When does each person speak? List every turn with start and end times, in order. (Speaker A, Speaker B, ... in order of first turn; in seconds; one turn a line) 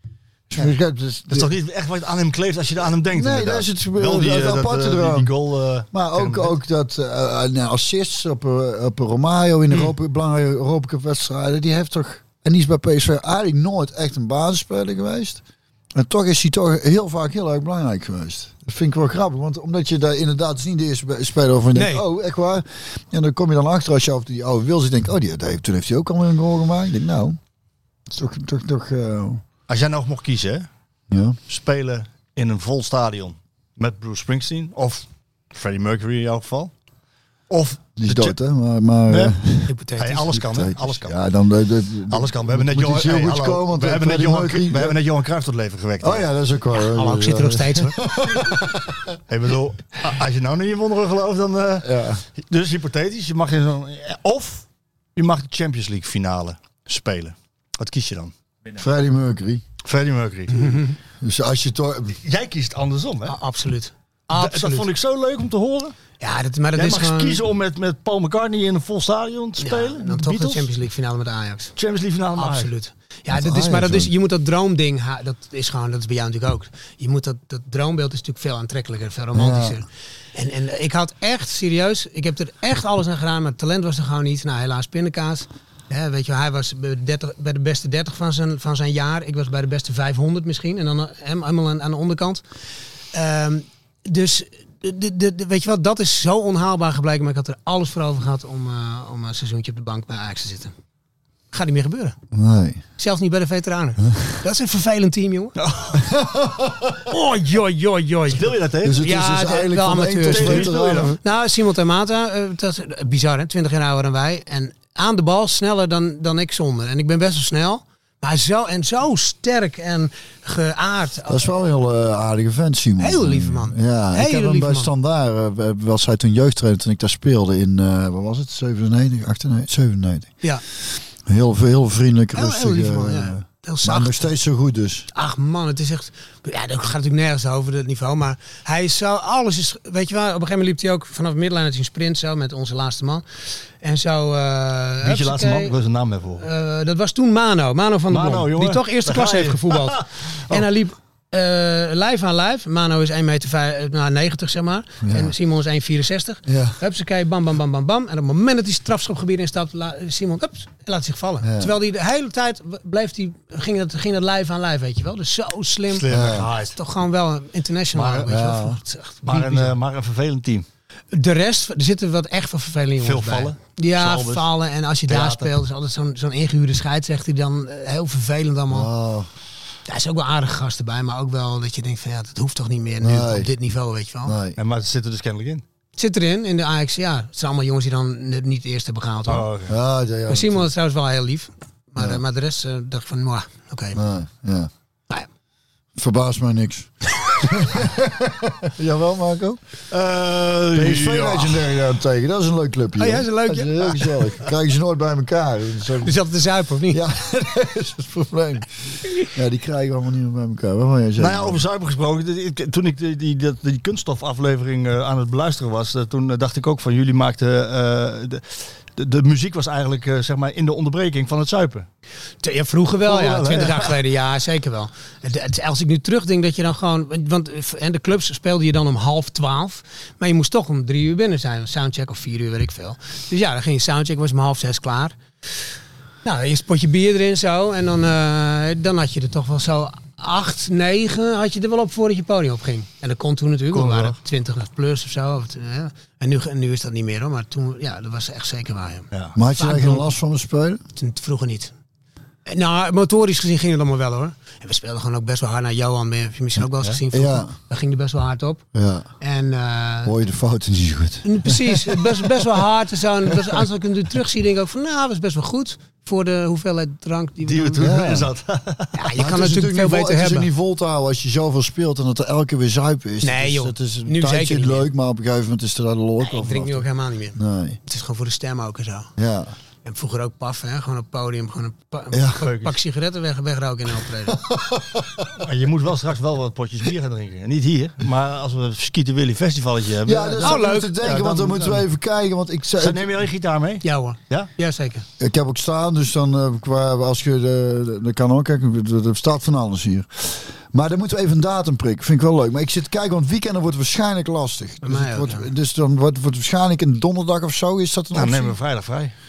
Speaker A: 0.5-1.5
Speaker B: 1.3-6.5
Speaker A: 3.1-5.3
Speaker A: 5.9-15.4
Speaker A: 15.9-27.4
Speaker C: 21.7-22.0
Speaker A: 28.1-29.4
Speaker B: 29.7-30.7
Speaker A: 31.1-31.4
Speaker B: 31.5-36.7
Speaker B: 37.5-38.4
Speaker A: 38.0-39.7
Speaker B: 39.1-39.4
Speaker C: 39.7-40.3
Speaker B: 40.0-41.1
Speaker A: 40.3-45.0
Speaker B: 42.1-46.3
Speaker A: 46.0-49.2
Speaker C: 46.7-48.0
Speaker B: 49.3-58.3
Speaker A: 51.8-52.2
Speaker A: 58.7-59.6
Speaker B: 59.8-60.8
Speaker C: 60.5-60.9
Speaker A: 61.2-62.2
Speaker B: 62.2-63.4
Speaker C: 63.3-64.9
Speaker B: 64.3-66.0
Speaker C: 66.2-67.4
Speaker B: 66.8-70.7
Speaker C: 69.6-71.7
Speaker B: 71.8-72.7
Speaker C: 72.4-92.4
Speaker A: 73.3-74.1
Speaker A: 79.3-79.8
Speaker C: 93.1-100.7
Speaker C: 101.5-102.2
Speaker A: 102.3-102.8
Speaker C: 103.0-105.6
Speaker B: 105.6-106.1
Speaker A: 106.0-107.0
Speaker C: 107.1-121.5
Speaker B: 108.3-109.0
Speaker A: 108.8-111.2
Speaker B: 110.3-111.2
Speaker A: 121.3-130.3
Speaker C: 123.0-124.9
Speaker A: 131.2-135.1
Speaker C: 132.3-134.3
Speaker C: 135.1-143.2
Speaker C: 143.8-145.7
Speaker B: 145.0-146.4
Speaker C: 146.4-166.1
Speaker B: 148.1-150.7
Speaker A: 155.0-155.3
Speaker A: 156.4-156.8
Speaker A: 161.4-161.7
Speaker B: 165.9-166.8
Speaker A: 166.1-166.5
Speaker C: 166.7-169.7
Speaker B: 167.9-168.5
Speaker A: 168.3-168.8
Speaker B: 169.2-170.7
Speaker C: 171.1-178.9
Speaker B: 173.0-174.5
Speaker B: 175.1-175.5
Speaker A: 178.7-179.3
Speaker C: 179.9-184.4
Speaker A: 183.0-183.5
Speaker A: 184.2-184.6
Speaker B: 184.6-185.6
Speaker C: 186.0-189.5
Speaker B: 189.3-189.7
Speaker A: 189.7-190.7
Speaker C: 190.3-194.0
Speaker A: 193.9-194.7
Speaker A: 195.9-199.6
Speaker B: 199.9-201.7
Speaker A: 200.7-206.2
Speaker C: 203.0-204.3
Speaker C: 206.0-207.0
Speaker A: 206.9-211.6
Speaker B: 211.2-221.9
Speaker C: 222.4-235.2
Speaker B: 223.1-223.9
Speaker C: 236.2-250.1
Speaker B: 243.7-244.2
Speaker A: 249.3-250.8
Speaker C: 250.9-251.7
Speaker C: 252.4-258.6
Speaker A: 257.1-257.5
Speaker A: 258.7-259.1
Speaker C: 259.2-260.1
Speaker A: 260.0-262.4
Speaker C: 261.2-267.9
Speaker B: 267.4-269.1
Speaker A: 267.8-268.3
Speaker C: 268.9-270.5
Speaker A: 269.1-276.9
Speaker C: 273.2-274.9
Speaker C: 276.2-279.1
Speaker A: 277.4-277.8
Speaker A: 279.2-279.5
Speaker C: 279.9-284.4
Speaker A: 282.1-282.4
Speaker B: 282.4-282.8
Speaker A: 284.3-285.3
Speaker B: 285.4-291.8
Speaker A: 290.1-293.1
Speaker C: 290.4-291.0
Speaker B: 292.8-294.5
Speaker C: 293.8-295.1
Speaker A: 295.2-308.6
Speaker C: 304.8-305.5
Speaker B: 308.1-309.1